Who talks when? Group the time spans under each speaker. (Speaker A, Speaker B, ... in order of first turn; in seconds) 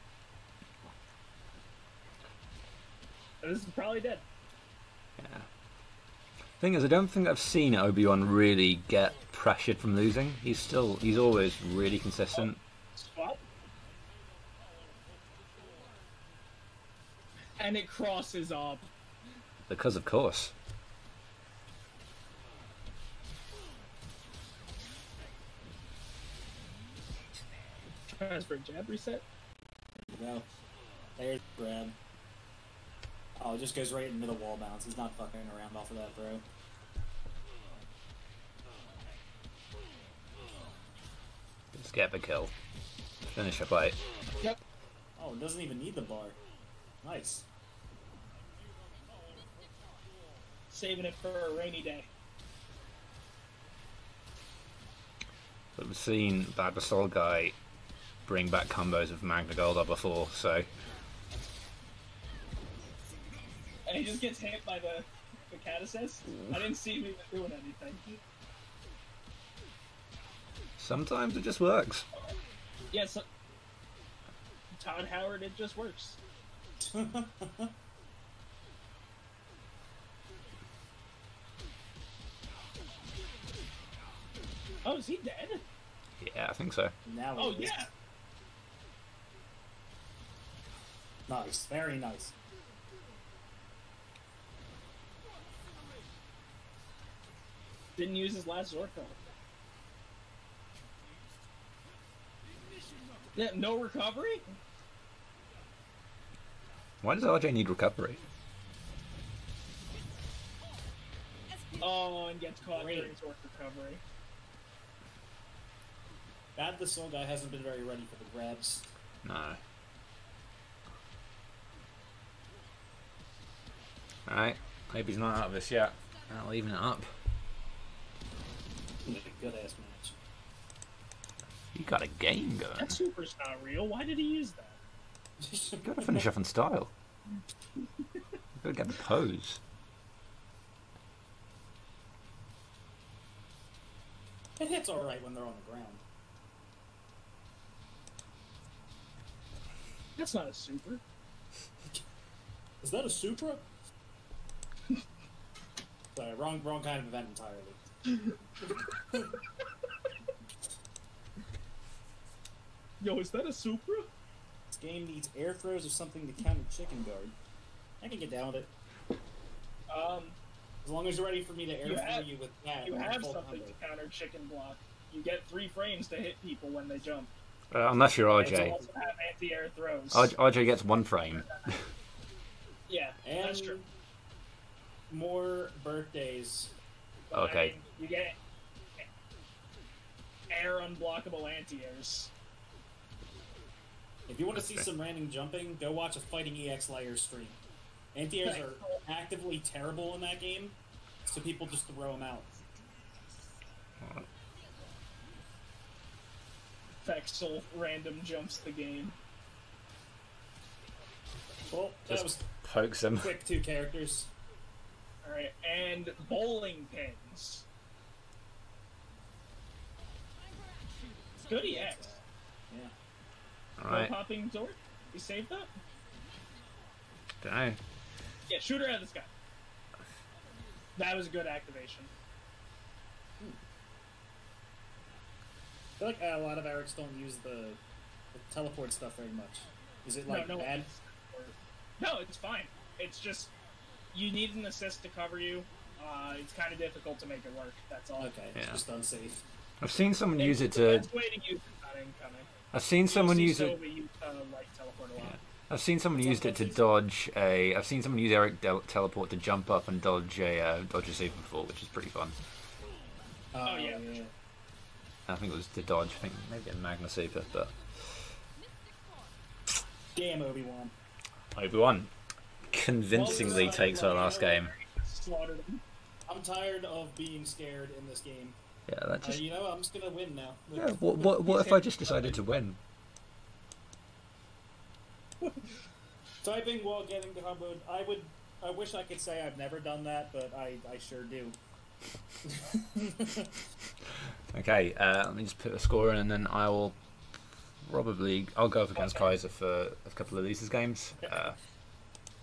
Speaker A: 3.4-4.2, 12.3-13.4, 17.6-18.9, 28.1-29.2, 50.7-52.1, 63.9-68.2, 72.9-73.2, 74.8-76.2, 84.8-85.6, 87.4-87.9, 98.0-99.2, 103.3-104.4, 111.8-114.0, 132.8-134.8, 137.8-138.2, 150.2-151.0, 158.1-158.4, 163.0-164.1, 169.9-170.4, 171.8-172.2, 172.8-177.3, 178.3-180.3, 181.3-181.7, 182.9-183.8, 187.3-188.3, 190.5-192.3, 198.4-199.0, 207.0-209.1, 215.2-217.6, 221.5-222.2, 223.9-225.7, 228.5-229.3, 230.9-232.1, 240.3-243.5, 244.1-248.3, 250.4-252.5, 253.1-255.4, 263.6-264.2, 273.1-275.8, 281.5-282.4, 285.4-285.7, 298.9-299.3
Speaker B: 5.2-5.5, 6.6-12.6, 19.7-20.5, 41.7-42.5, 43.3-44.0, 55.8-57.5, 58.3-60.7, 70.8-72.0, 86.2-86.9, 107.0-108.2, 119.2-119.6, 124.3-127.1, 131.7-133.0, 135.8-136.9, 138.6-139.6, 177.7-178.8, 180.1-181.8, 187.3-187.8, 194.5-194.9, 212.1-213.3, 223.8-224.1, 227.4-227.8, 248.5-248.8, 249.8-251.1, 252.7-253.8, 255.2-262.3, 265.3-268.3, 271.5-272.1, 272.7-274.7, 278.9-279.4, 280.7-282.8, 294.5-297.0, 297.8-301.6
Speaker C: 30.1-30.4, 31.2-31.9, 33.4-36.4, 45.2-46.4, 47.0-47.5, 76.8-77.7, 87.0-87.8, 91.3-92.3, 112.7-113.1, 116.5-118.9, 129.0-130.2, 135.4-136.2, 144.6-146.0, 152.8-153.6, 156.1-157.8, 158.6-159.4, 164.7-167.3, 168.0-168.7, 170.8-173.8, 178.5-178.8, 183.2-183.9, 185.1-186.7, 194.3-197.6, 198.1-202.5, 211.7-212.4, 213.2-214.3, 221.5-222.9, 236.0-237.8, 238.3-240.9, 248.2-249.4, 256.1-256.8, 263.5-264.3, 270.1-270.9, 273.1-274.6, 276.3-278.6, 279.2-281.7, 286.4-291.6, 292.4-293.5